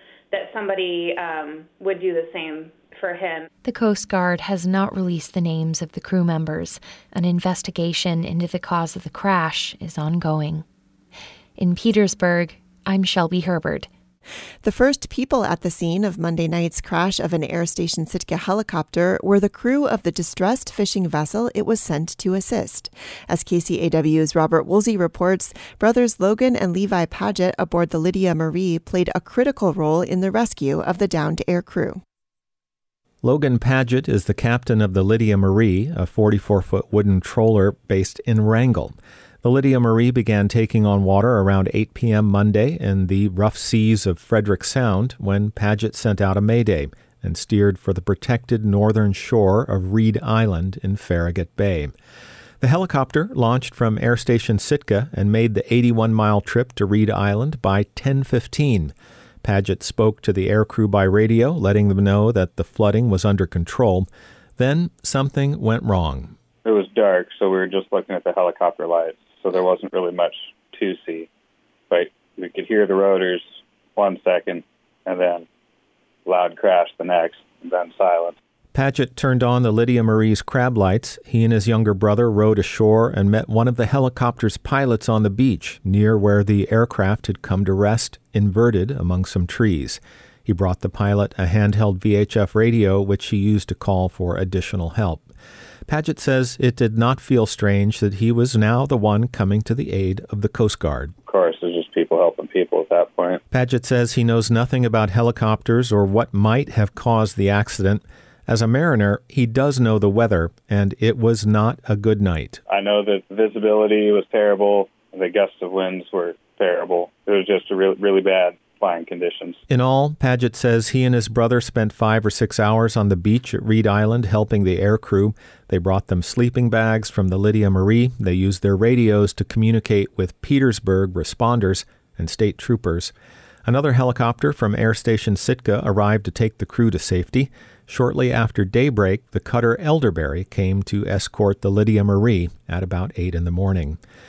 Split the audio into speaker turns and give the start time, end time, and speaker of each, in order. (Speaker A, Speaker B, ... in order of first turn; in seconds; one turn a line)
Speaker A: 0.3-3.5
Speaker B: 3.6-10.6
Speaker B: 11.6-13.9
Speaker C: 14.6-32.0
Speaker D: 33.2-51.9
Speaker D: 52.6-66.3
Speaker E: 66.7-71.3
Speaker E: 71.9-75.5
Speaker E: 76.3-78.3
Speaker D: 78.7-95.3
Speaker D: 95.9-101.1
Speaker E: 101.3-103.4
Speaker D: 103.5-112.6
Speaker E: 112.7-119.6
Speaker D: 119.7-133.1
Speaker D: 133.7-144.0